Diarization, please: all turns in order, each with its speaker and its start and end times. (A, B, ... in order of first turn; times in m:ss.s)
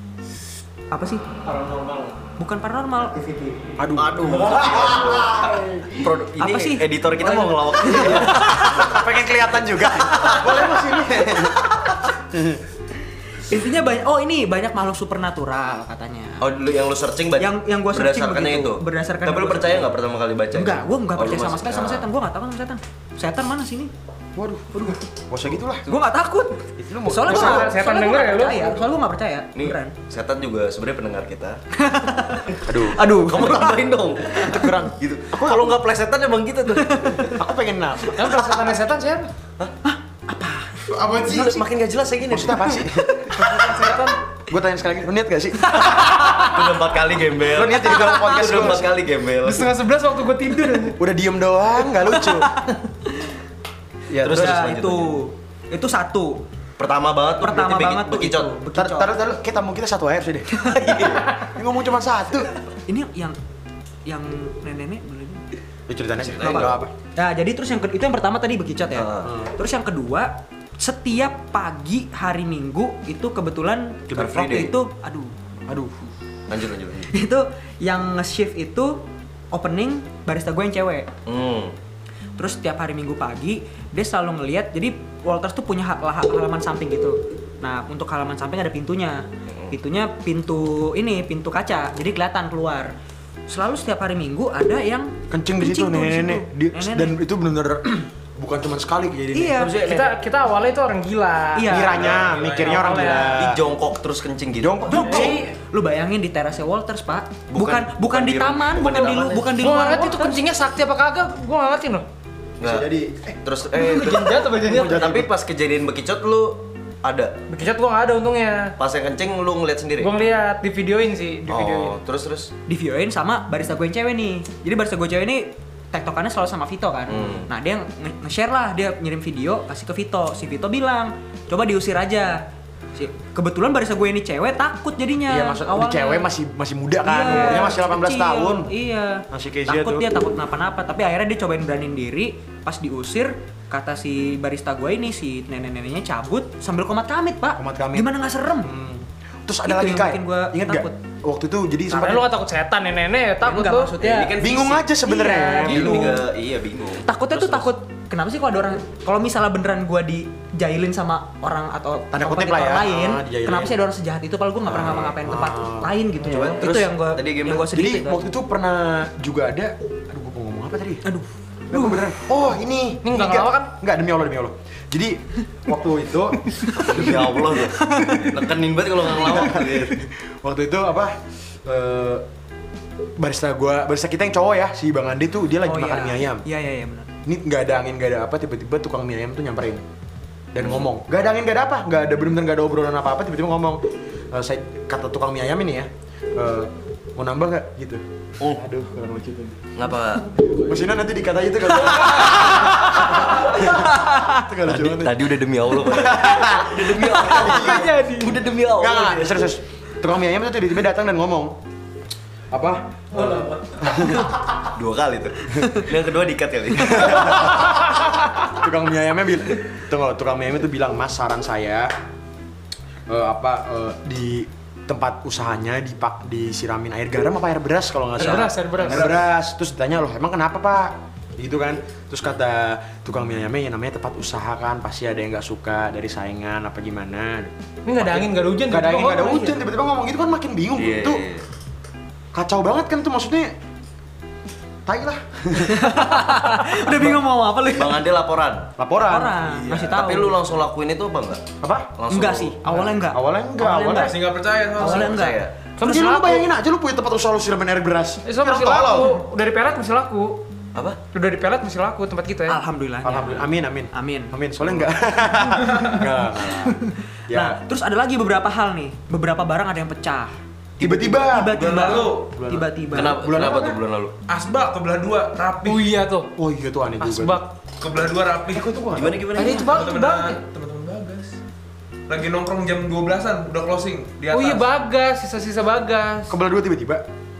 0:00.9-0:01.3 A
0:01.6-0:02.2 B
0:02.4-0:03.6 A
0:03.8-0:05.7 C
0:03.9-0:08.8 D
0:06.4-0:08.9 A
0:07.9-0:11.7 C
0:10.2-0:10.5 A
0:12.3-0:12.6 C
0:13.5-0:16.5 A
0:16.4-0:22.1 D
0:17.4-0:19.9 A
0:20.5-0:23.9 A
0:24.4-0:25.9 C
0:25.9-0:30.0 A
0:26.8-0:27.8 C
0:27.2-0:28.8 E
0:29.6-0:31.6 D
0:31.8-0:33.8 A
0:32.6-0:33.1 C
0:33.1-0:37.3 D
0:34.3-0:35.7 C
0:36.8-0:37.3 A
0:37.3-0:38.4 C
0:38.1-0:39.3 E
0:39.8-0:41.4 A
0:41.1-0:42.9 D
0:42.3-0:43.3 C
0:43.3-0:44.2 E
0:44.5-0:46.0 C
0:45.8-0:46.6 A
0:45.9-0:49.7 D
0:47.4-0:48.9 C
0:49.4-0:51.0 E
0:51.0-0:52.6 C
0:54.1-0:54.7 C
0:54.2-0:55.2 D
0:54.2-0:56.4 A
0:56.8-0:58.5 D
0:57.4-0:59.2 A
0:58.8-1:02.5 C
1:00.6-1:01.3 A
1:00.8-1:01.3 D
1:02.9-1:03.4 A
1:04.1-1:05.4 A
1:05.9-1:06.9 C
1:06.2-1:06.8 D
1:07.2-1:15.3 A
1:08.9-1:09.4 D
1:09.2-1:09.5 C
1:14.1-1:14.4 C
1:14.1-1:14.7 D
1:15.7-1:16.0 C
1:16.5-1:17.1 D
1:17.1-1:19.0 A
1:19.5-1:21.1 A
1:21.3-1:21.8 D
1:22.4-1:32.9 A
1:29.5-1:29.8 D
1:33.5-1:37.2 A
1:35.3-1:39.7 C
1:39.3-1:39.9 A
1:39.6-1:40.1 D
1:39.7-1:43.4 E
1:41.6-1:42.1 A
1:41.7-1:43.6 C
1:42.0-1:42.8 B
1:43.2-1:45.0 D
1:44.6-1:45.4 C
1:44.9-1:50.4 A
1:44.9-1:45.5 E
1:47.5-1:49.6 D
1:49.6-1:52.1 E
1:52.6-1:52.9 D
1:52.6-1:53.4 C
1:53.4-1:57.4 D
1:53.8-1:55.1 E
1:54.6-1:55.3 C
1:57.5-1:58.8 E
1:58.8-2:00.1 D
2:00.0-2:02.0 E
2:01.5-2:02.5 D
2:02.7-2:12.4 A
2:07.1-2:07.5 D
2:13.0-2:16.3 A
2:15.3-2:18.7 C
2:17.0-2:28.7 A
2:19.3-2:20.1 C
2:27.6-2:28.1 C
2:28.6-2:32.3 C
2:29.6-2:31.0 A
2:31.9-2:33.9 E
2:33.4-2:34.4 A
2:34.0-2:34.8 D
2:34.4-2:36.2 C
2:35.0-2:36.3 A
2:35.6-2:37.6 D
2:37.0-2:48.3 A
2:42.1-2:43.8 C
2:44.7-2:45.9 C
2:44.8-2:45.1 D
2:46.2-2:47.7 D
2:47.7-2:51.0 C
2:51.0-2:52.2 A
2:51.7-2:57.4 C
2:53.0-2:53.7 E
2:56.7-3:00.0 D
2:57.6-2:58.4 A
2:59.1-3:02.2 C
3:03.2-3:06.4 C
3:05.6-3:07.1 A
3:07.2-3:09.8 C
3:10.5-3:18.0 C
3:10.6-3:10.9 D
3:18.6-3:19.6 C
3:19.8-3:20.3 D
3:20.6-3:27.9 C
3:24.6-3:29.4 D
3:27.4-3:28.4 E
3:28.7-3:31.6 C
3:32.5-3:34.4 C
3:34.7-3:37.7 D
3:36.8-3:41.9 C
3:43.1-4:01.2 C
3:48.2-3:49.3 E
3:57.8-3:59.6 E
4:00.8-4:01.5 D
4:02.3-4:03.5 C
4:04.9-4:07.2 C
4:05.6-4:08.1 A
4:07.7-4:08.7 D
4:08.8-4:09.4 C
4:09.0-4:10.4 A
4:09.6-4:09.9 B
4:09.8-4:11.4 D
4:11.6-4:11.9 C
4:12.0-4:12.6 D
4:12.1-4:15.5 A
4:12.6-4:14.2 C
4:14.0-4:15.2 B
4:14.8-4:15.5 D
4:15.8-4:16.5 E
4:15.8-4:19.1 C
4:18.3-4:20.4 E
4:21.1-4:22.6 E
4:22.5-4:24.3 A
4:23.0-4:27.6 C
4:25.7-4:26.0 B
4:27.3-4:33.2 A
4:30.8-4:33.8 C
4:31.5-4:32.3 B
4:32.9-4:34.1 D
4:34.3-4:35.9 B
4:35.6-4:36.3 E
4:36.4-4:37.4 C
4:37.0-4:37.5 E
4:37.8-4:38.7 B
4:38.5-4:39.3 C
4:38.9-4:39.8 D
4:39.4-4:40.4 E
4:39.5-4:41.4 B
4:42.1-4:44.7 B
4:44.3-4:46.3 E
4:46.3-4:47.0 C